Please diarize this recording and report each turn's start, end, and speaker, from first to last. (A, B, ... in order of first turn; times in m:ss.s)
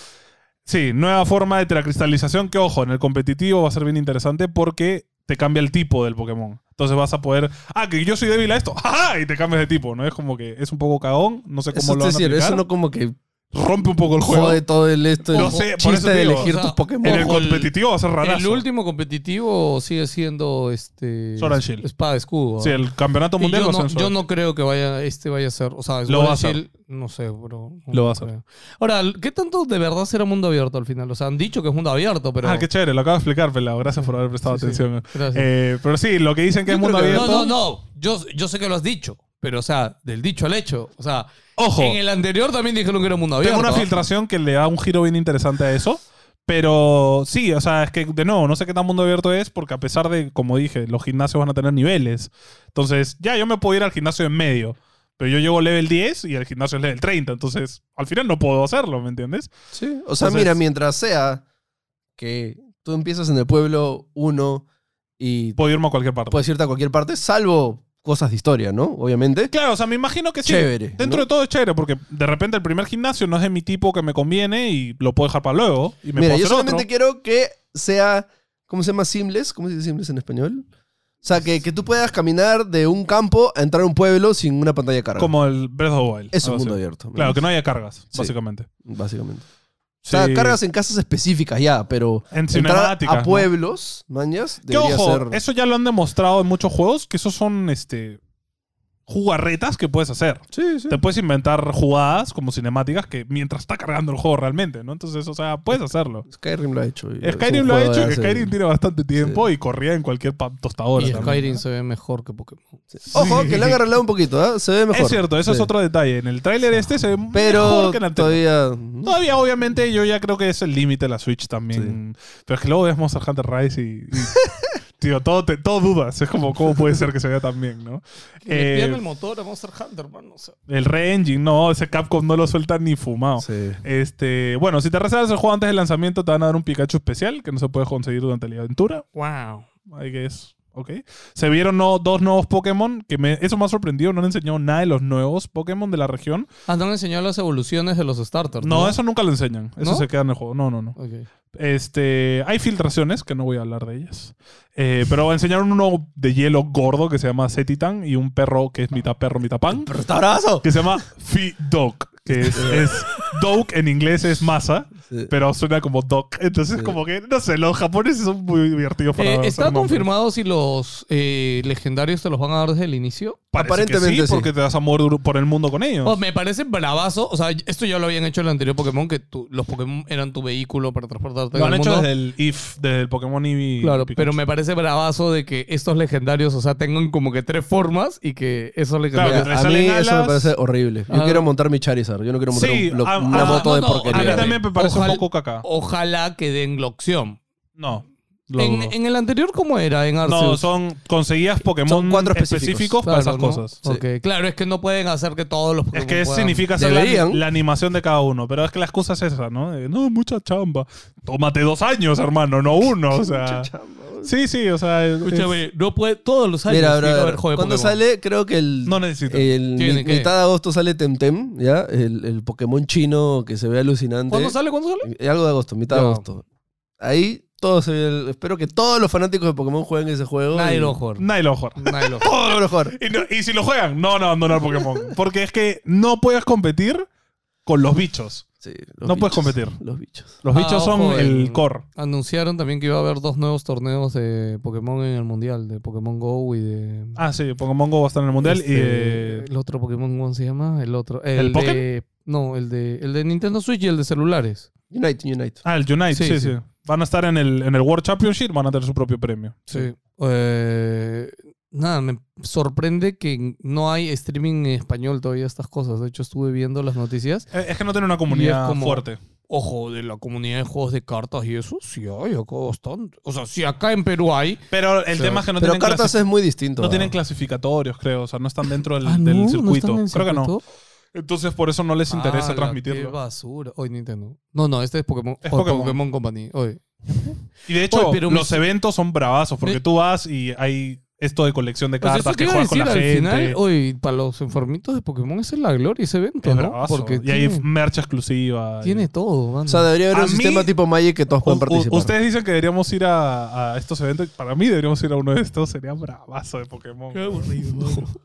0:00.7-0:12.6 A
0:11.7-0:13.2 B
0:13.5-0:14.6 A
0:14.2-0:17.4 B
0:15.3-0:18.6 A
0:15.3-0:15.7 C
0:16.3-0:22.8 C
0:21.4-0:21.9 A
0:22.6-0:24.1 A
0:23.4-0:32.7 C
0:26.1-0:26.6 A
0:27.9-0:28.3 A
0:32.4-0:37.5 A
0:34.4-0:35.5 C
0:36.7-0:37.5 B
0:37.1-0:43.9 C
0:41.6-0:42.0 A
0:43.4-0:59.5 A
0:59.7-1:01.4 B
1:00.2-1:00.6 A
1:02.2-1:04.7 B
1:05.2-1:05.6 B
1:05.6-1:06.4 A
1:06.3-1:09.5 B
1:09.5-1:16.9 A
1:10.4-1:11.3 B
1:16.2-1:20.7 B
1:21.2-1:25.3 B
1:25.2-1:28.7 A
1:26.3-1:27.4 B
1:28.1-1:29.4 B
1:30.0-1:30.6 A
1:30.1-1:35.4 B
1:32.3-1:33.5 A
1:34.7-1:38.2 A
1:39.1-1:46.3 A
1:40.5-1:41.0 B
1:46.3-1:48.5 B
1:47.2-1:51.6 A
1:49.2-1:49.4 B
1:51.0-1:53.7 C
1:51.0-1:51.4 B
1:52.9-1:55.7 B
1:53.1-1:53.8 A
1:54.9-1:58.4 A
1:57.3-1:59.2 B
1:59.0-2:09.0 A
2:08.4-2:10.6 C
2:10.7-2:19.0 A
2:13.4-2:13.8 B
2:19.2-2:19.7 C
2:19.9-2:26.5 A
2:26.7-2:29.0 C
2:28.6-2:31.0 A
2:29.8-2:30.1 C
2:31.0-2:31.3 C
2:31.5-2:39.9 A
2:39.7-2:40.7 B
2:40.6-2:50.1 A
2:42.4-2:43.0 B
2:45.1-2:45.3 B
2:49.2-2:53.4 C
2:53.5-2:56.2 A
2:53.6-2:54.5 B
2:56.0-3:02.1 C
3:01.5-3:04.4 A
3:03.8-3:09.5 C
3:09.1-3:10.5 A
3:09.2-3:14.6 B
3:11.1-3:11.5 C
3:12.5-3:15.6 A
3:13.3-3:17.4 C
3:17.8-3:19.0 A
3:18.6-3:20.6 C
3:20.2-3:23.8 A
3:21.9-3:23.0 B
3:23.1-3:26.6 C
3:25.9-3:33.7 A
3:26.8-3:27.4 B
3:33.1-3:34.3 B
3:34.2-3:35.6 A
3:35.2-3:38.0 C
3:36.7-3:46.4 B
3:38.9-3:39.5 A
3:39.8-3:40.3 C
3:44.3-3:45.1 C
3:45.9-3:46.2 C
3:47.0-3:51.0 B
3:50.5-3:52.3 C
3:51.2-3:57.1 A
3:52.2-3:53.0 B
3:57.7-3:58.5 A
3:58.6-4:00.4 B
3:59.0-3:59.8 A
4:00.4-4:01.8 A
4:00.5-4:07.2 C
4:07.2-4:09.5 A
4:08.4-4:14.7 C
4:11.4-4:11.8 A
4:14.9-4:15.6 B
4:15.6-4:19.9 A
4:16.1-4:16.6 C
4:19.7-4:27.5 C
4:27.5-4:29.2 A
4:28.3-4:35.4 C
4:34.7-4:36.2 A
4:35.6-4:37.1 B
4:36.8-4:40.5 A
4:39.0-4:40.6 C
4:41.1-4:43.2 A
4:42.1-4:48.7 C
4:45.4-4:46.0 A
4:47.7-4:53.6 A
4:52.0-4:57.6 C
4:56.4-4:59.1 A
4:58.8-4:59.9 C
4:59.7-5:02.1 B
5:00.1-5:00.7 A
5:01.4-5:07.4 A
5:07.1-5:08.1 C
5:07.8-5:08.1 B